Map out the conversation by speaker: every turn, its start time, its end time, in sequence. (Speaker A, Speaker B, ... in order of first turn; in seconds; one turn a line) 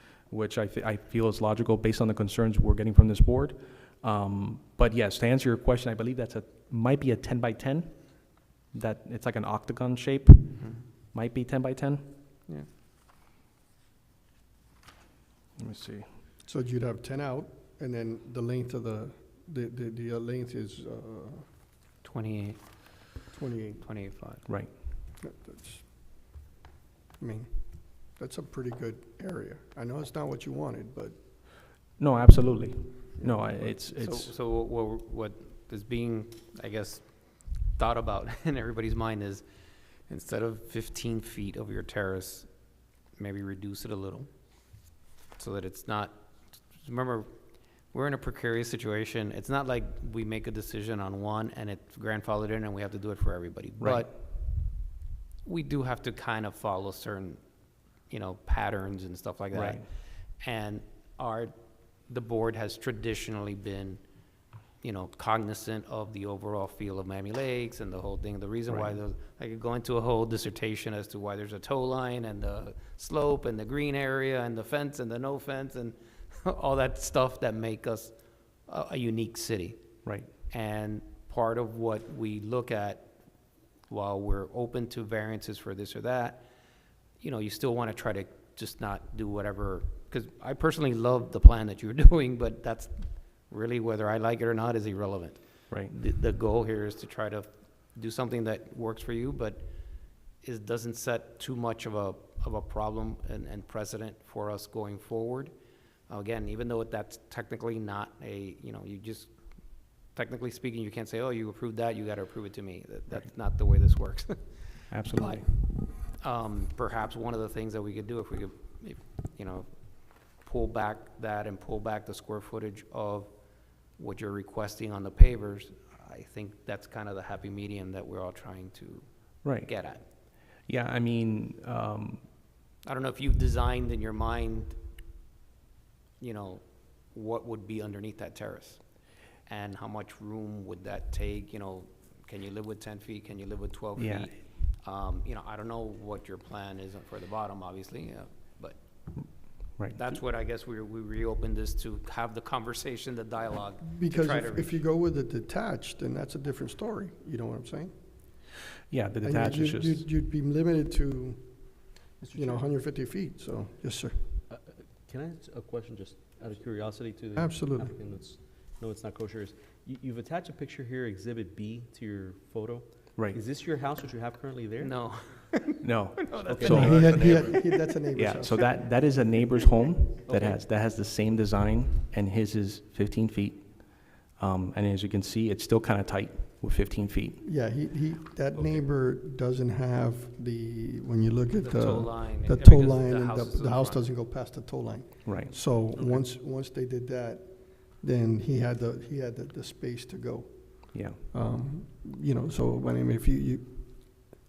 Speaker A: 0.3-12.1
Speaker B: 10.6-10.8
Speaker A: 15.6-16.1
Speaker C: 16.4-21.5
Speaker B: 22.0-22.6
Speaker C: 23.3-23.8
Speaker B: 23.8-24.4
Speaker A: 24.5-24.7
Speaker C: 25.2-25.9
Speaker C: 27.2-31.2
Speaker A: 32.0-34.3
Speaker C: 33.2-33.7
Speaker B: 33.9-37.1
Speaker B: 37.7-39.5
Speaker B: 40.1-42.5
Speaker B: 43.1-44.3
Speaker B: 45.4-46.2
Speaker B: 46.8-47.3
Speaker B: 47.9-54.2
Speaker A: 53.8-54.1
Speaker B: 55.5-57.4
Speaker B: 58.1-61.5
Speaker A: 59.5-59.8
Speaker B: 62.1-64.0
Speaker B: 64.8-78.1
Speaker A: 68.7-69.0
Speaker B: 78.7-79.8
Speaker A: 80.0-80.3
Speaker B: 80.5-83.1
Speaker B: 83.9-86.5
Speaker B: 87.2-99.7
Speaker B: 100.4-105.5
Speaker B: 106.1-109.3
Speaker B: 110.1-119.7
Speaker A: 114.9-115.5
Speaker B: 120.4-123.3
Speaker B: 124.0-130.0
Speaker A: 129.4-129.7
Speaker A: 130.6-132.2
Speaker B: 132.8-134.8
Speaker B: 136.2-148.8
Speaker A: 144.0-144.3
Speaker B: 149.4-154.8
Speaker C: 153.8-157.9
Speaker A: 158.9-160.0
Speaker C: 159.2-164.4
Speaker D: 164.5-174.9
Speaker C: 167.4-167.9
Speaker B: 174.8-177.8
Speaker A: 175.8-177.2
Speaker D: 176.4-177.1
Speaker C: 176.6-179.2
Speaker A: 178.2-187.4
Speaker D: 180.2-180.6
Speaker C: 187.4-204.3
Speaker B: 188.5-188.8
Speaker B: 191.6-194.0
Speaker A: 195.3-195.5
Speaker A: 200.9-201.2